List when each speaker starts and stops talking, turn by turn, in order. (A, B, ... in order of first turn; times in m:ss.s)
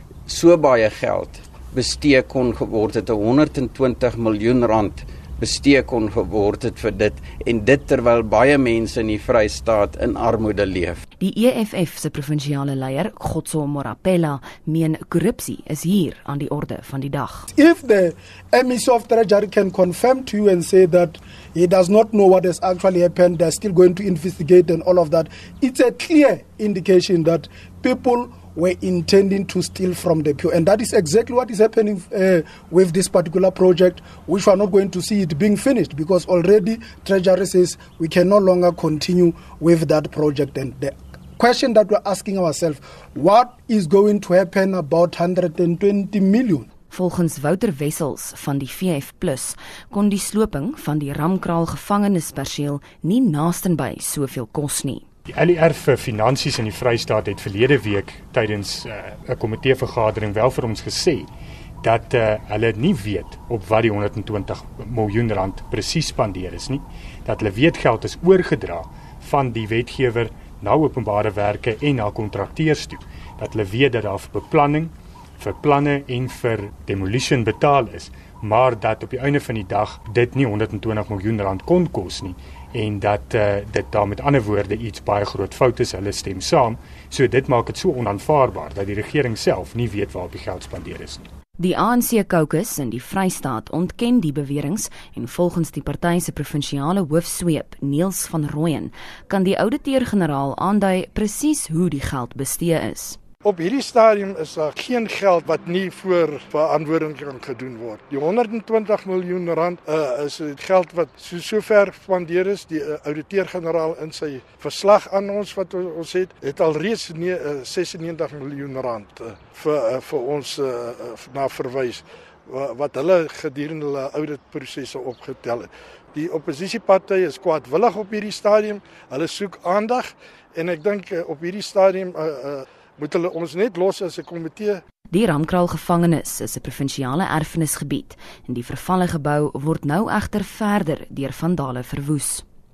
0:00.3-0:11.0 A
0:11.2-0:17.5 B
0:17.5-0:46.7 C
0:46.9-0:55.0 B
0:55.3-1:01.3 D
1:01.8-1:31.3 D
1:31.6-1:43.2 B
1:43.4-2:14.8 E
2:15.1-2:22.4 B